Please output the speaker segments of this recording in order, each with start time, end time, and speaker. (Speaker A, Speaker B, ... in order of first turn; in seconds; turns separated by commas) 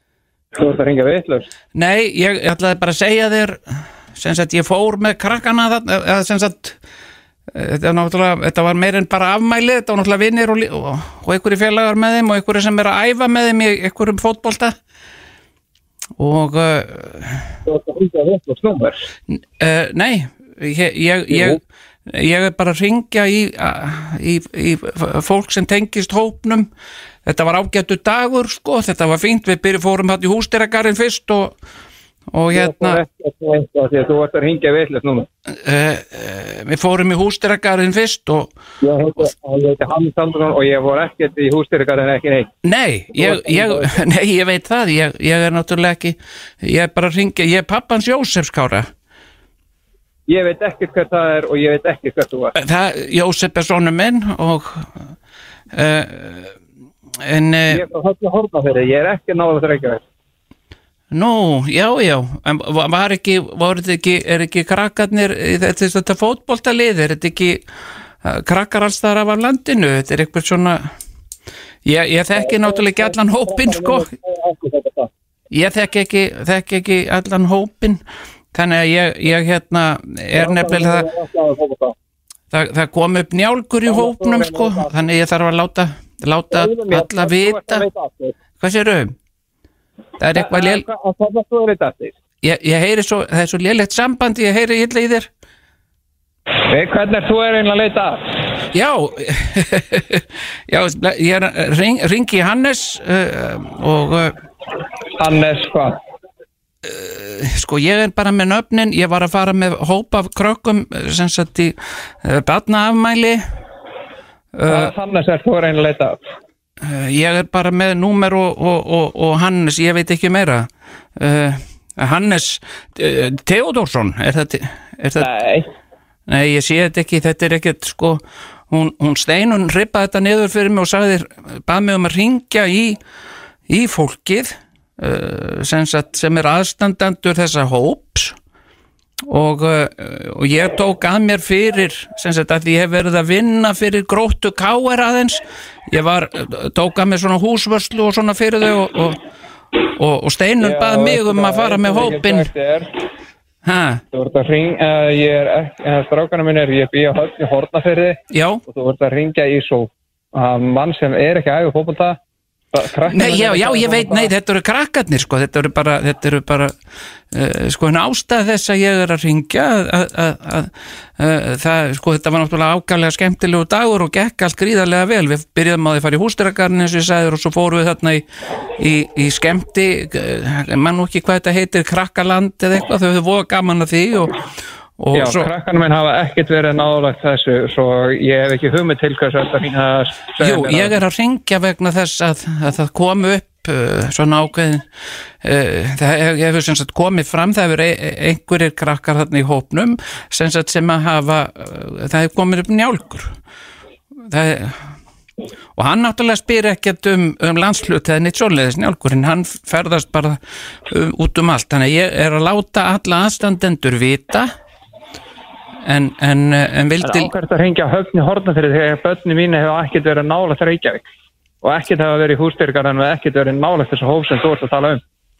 Speaker A: 0.5-1.5, Speaker B: 1.7-3.6, Speaker B: 4.2-6.7, Speaker B: 7.5-14.7, Speaker B: 16.2-17.4, Speaker A: 17.6-19.1, Speaker B: 19.6-26.7, Speaker A: 21.3-21.6, Speaker B: 27.2-31.5, Speaker B: 32.3-33.0, Speaker A: 32.5-35.3, Speaker B: 35.6-38.5, Speaker A: 38.8-42.5, Speaker B: 42.6-48.9, Speaker A: 43.1-43.9, Speaker A: 50.3-52.5, Speaker B: 52.5-54.8, Speaker B: 55.7-56.5, Speaker B: 57.2-57.8, Speaker A: 57.7-60.0, Speaker B: 61.1-67.6, Speaker B: 68.2-70.8, Speaker B: 71.8-74.0, Speaker A: 72.3-75.1, Speaker B: 75.5-78.0, Speaker B: 78.5-81.0, Speaker A: 80.3-81.9, Speaker B: 82.5-87.8, Speaker A: 83.8-84.9, Speaker A: 86.5-88.3, Speaker B: 88.6-89.1, Speaker B: 90.2-90.8, Speaker A: 90.3-92.1, Speaker B: 92.4-95.3, Speaker A: 96.7-98.2, Speaker B: 98.7-104.3, Speaker A: 105.2-106.0, Speaker B: 106.9-111.7, Speaker B: 112.2-113.4, Speaker B: 114.6-114.9, Speaker A: 114.7-116.2, Speaker B: 116.8-120.7, Speaker B: 121.2-125.2, Speaker A: 125.2-125.7, Speaker B: 126.3-128.2, Speaker B: 128.7-133.0, Speaker B: 133.7-134.5, Speaker B: 135.0-138.3, Speaker B: 139.3-145.4, Speaker B: 145.9-149.2, Speaker B: 150.0-152.5, Speaker A: 150.6-152.9, Speaker B: 153.7-154.0, Speaker A: 154.1-162.2, Speaker B: 158.3-158.6, Speaker A: 162.7-164.3, Speaker B: 163.1-166.7, Speaker B: 167.3-170.7, Speaker B: 171.2-178.2, Speaker B: 178.8-184.3, Speaker B: 185.0-185.5, Speaker A: 185.1-190.9, Speaker B: 190.4-194.8, Speaker B: 195.4-203.2, Speaker B: 204.3-204.7, Speaker B: 205.8-210.4, Speaker B: 210.9-214.5, Speaker B: 215.9-217.3, Speaker A: 217.0-221.0, Speaker A: 221.6-225.0